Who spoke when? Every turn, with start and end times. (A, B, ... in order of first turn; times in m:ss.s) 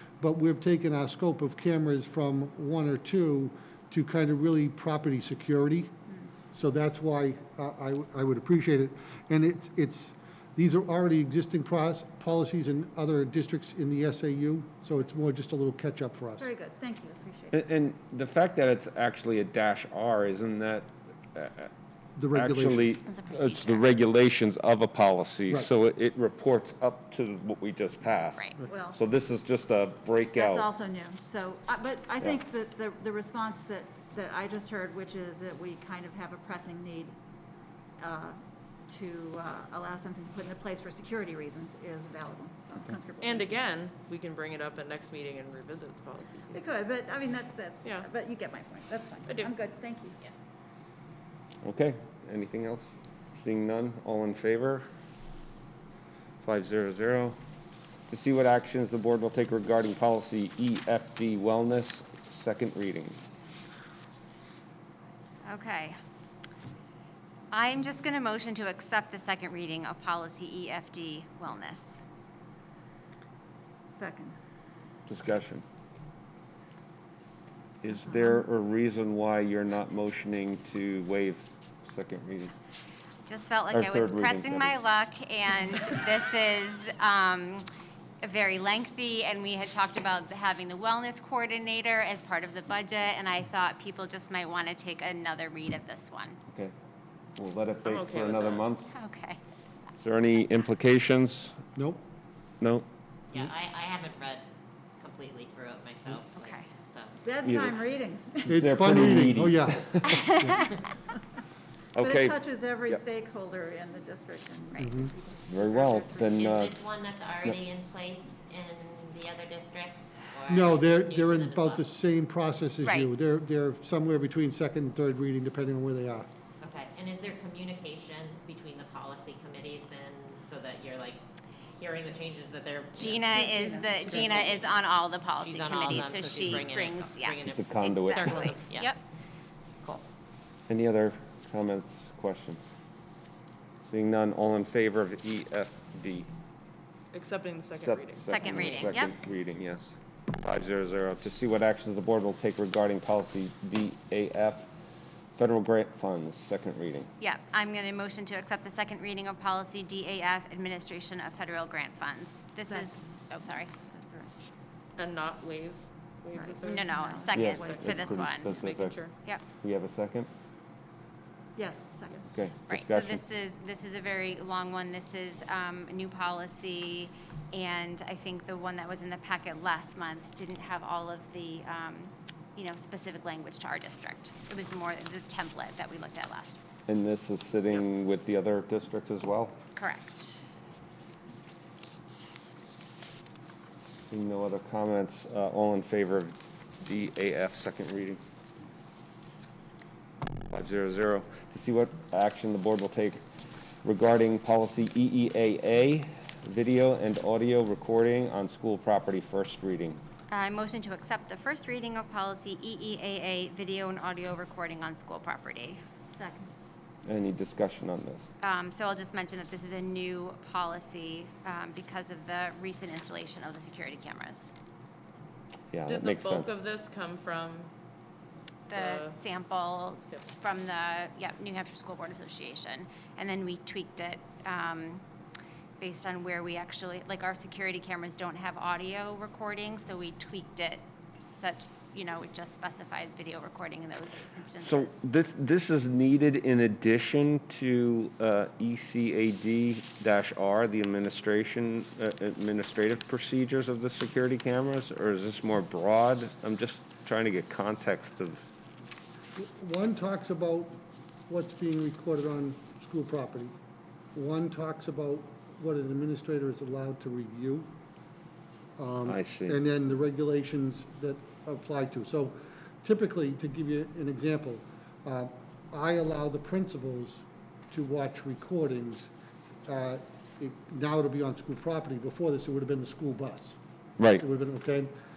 0:00.2-0:05.9 A
0:06.5-0:16.5 A
0:16.4-0:17.6 B
0:17.5-0:21.7 C
0:22.2-0:23.0 A
0:22.4-0:30.7 C
0:23.1-0:23.9 D
0:28.7-0:29.0 B
0:30.4-0:37.2 B
0:38.0-0:38.4 B
0:38.9-0:43.5 B
0:43.2-0:46.7 E
0:46.5-0:50.2 B
0:47.8-0:48.1 E
0:49.3-0:49.6 E
0:51.6-0:54.8 C
0:56.4-0:57.4 C
0:58.1-1:03.2 C
1:05.5-1:06.0 D
1:07.5-1:11.9 D
1:13.9-1:14.4 B
1:15.1-1:15.6 C
1:17.8-1:22.5 C
1:23.3-1:27.6 D
1:23.7-1:24.8 C
1:28.2-1:36.4 D
1:37.4-1:38.9 C
1:37.8-1:38.7 E
1:38.9-1:39.4 D
1:40.0-1:41.6 C
1:41.8-1:42.0 A
1:43.3-1:44.4 F
1:45.0-1:47.2 F
1:46.4-1:46.7 D
1:47.2-1:48.6 B
1:47.4-1:47.8 C
1:48.5-1:50.4 A
1:48.5-1:50.2 C
1:50.2-1:50.7 D
1:51.9-1:53.0 C
1:52.0-1:56.0 B
1:54.8-1:55.1 A
1:55.5-1:56.8 C
1:56.2-2:01.9 F
2:00.5-2:06.3 A
2:02.8-2:03.1 D
2:06.6-2:11.2 F
2:11.8-2:14.8 F
2:13.0-2:19.0 D
2:13.3-2:14.6 B
2:15.4-2:19.0 F
2:17.6-2:18.4 C
2:20.7-2:22.6 C
2:23.8-2:26.3 C
2:27.1-2:29.0 E
2:27.8-2:34.7 C
2:28.2-2:29.1 D
2:35.4-2:37.1 C
2:37.2-2:43.7 D
2:42.7-2:43.0 B
2:43.6-2:44.3 B
2:45.0-2:49.1 E
2:46.4-2:47.8 B
2:46.6-2:48.6 D
2:47.3-2:49.0 C
2:49.6-2:50.3 C
2:51.6-2:52.3 B
2:52.3-2:53.2 C
2:52.7-3:06.6 D
3:06.9-3:09.6 C
3:09.8-3:10.4 D
3:14.1-3:18.2 C
3:20.5-3:23.2 C
3:23.8-3:30.0 C
3:30.3-3:35.8 D
3:36.2-3:36.5 B
3:37.1-3:38.3 C
3:38.4-3:44.5 D
3:45.7-3:46.5 C
3:45.8-3:47.7 E
3:48.7-3:55.0 D
3:48.7-3:49.2 E
3:55.8-4:05.0 D
4:04.6-4:18.4 C
4:19.4-4:23.6 A
4:24.2-4:27.7 A
4:28.8-4:39.1 A
4:29.0-4:29.6 C
4:39.6-4:43.6 A
4:44.1-4:45.0 A